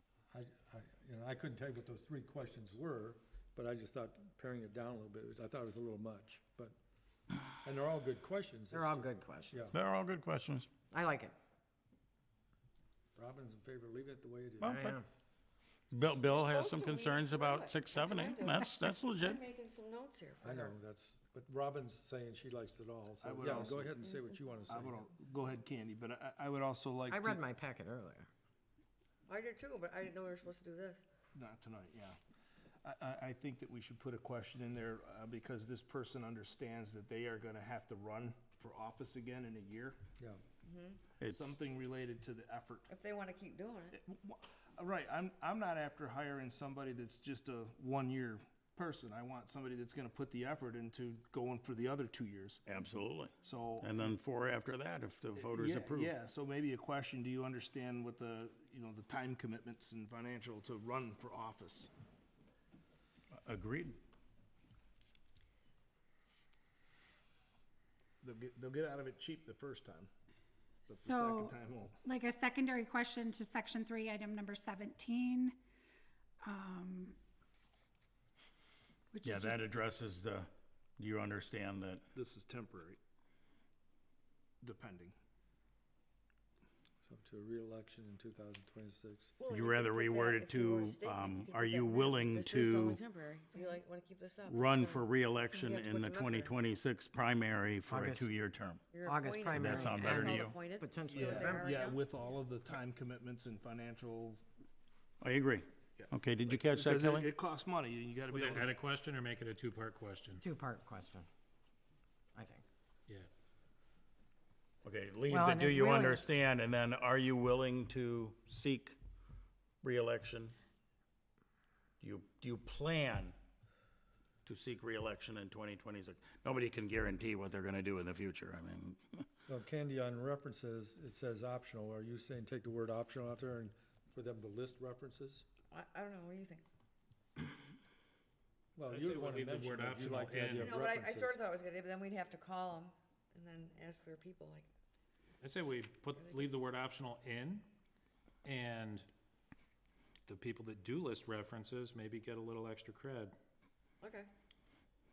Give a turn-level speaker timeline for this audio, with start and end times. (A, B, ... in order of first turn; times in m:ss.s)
0:00.3-0:06.8 A
0:07.6-0:09.8 A
0:08.7-0:09.7 B
0:09.7-0:10.7 C
0:10.9-0:11.3 B
0:13.2-0:14.8 A
0:14.6-0:15.0 C
0:14.6-0:15.0 B
0:15.9-0:19.4 C
0:16.1-0:20.8 D
0:20.4-0:25.1 A
0:23.2-0:24.0 E
0:24.0-0:24.6 D
0:24.7-0:27.4 E
0:27.1-0:28.3 B
0:29.3-0:31.0 D
0:31.3-0:32.2 E
0:32.8-0:40.0 E
0:40.6-0:41.0 D
0:41.2-0:41.5 C
0:41.2-0:42.9 E
0:42.9-0:44.0 D
0:43.9-0:52.6 E
0:52.6-0:56.1 C
0:53.4-0:53.9 E
0:55.4-1:01.9 E
1:03.4-1:04.0 C
1:08.2-1:10.1 E
1:10.9-1:12.0 E
1:10.9-1:15.6 F
1:16.4-1:17.2 F
1:19.1-1:19.8 F
1:19.2-1:22.0 C
1:22.1-1:23.0 E
1:24.6-1:25.1 E
1:27.0-1:29.4 A
1:29.4-1:36.6 D
1:29.5-1:33.0 C
1:34.4-1:38.8 C
1:37.9-1:38.3 B
1:38.9-1:42.0 D
1:39.0-1:41.8 B
1:39.5-1:40.6 C
1:41.0-1:44.4 E
1:45.2-1:47.3 C
1:46.0-1:48.8 E
1:48.3-1:50.4 G
1:50.4-1:51.3 B
1:52.3-1:52.6 B
1:54.8-1:59.0 C
1:55.3-1:56.3 B
1:59.8-2:00.5 C
2:02.0-2:03.3 C
2:04.4-2:09.2 C
2:09.5-2:15.4 A
2:15.7-2:16.6 D
2:18.8-2:21.4 A
2:18.9-2:20.8 G
2:20.6-2:24.7 D
2:25.4-2:27.7 G
2:26.2-2:26.5 D
2:28.4-2:29.1 G
2:30.2-2:33.4 G
2:34.0-2:34.3 D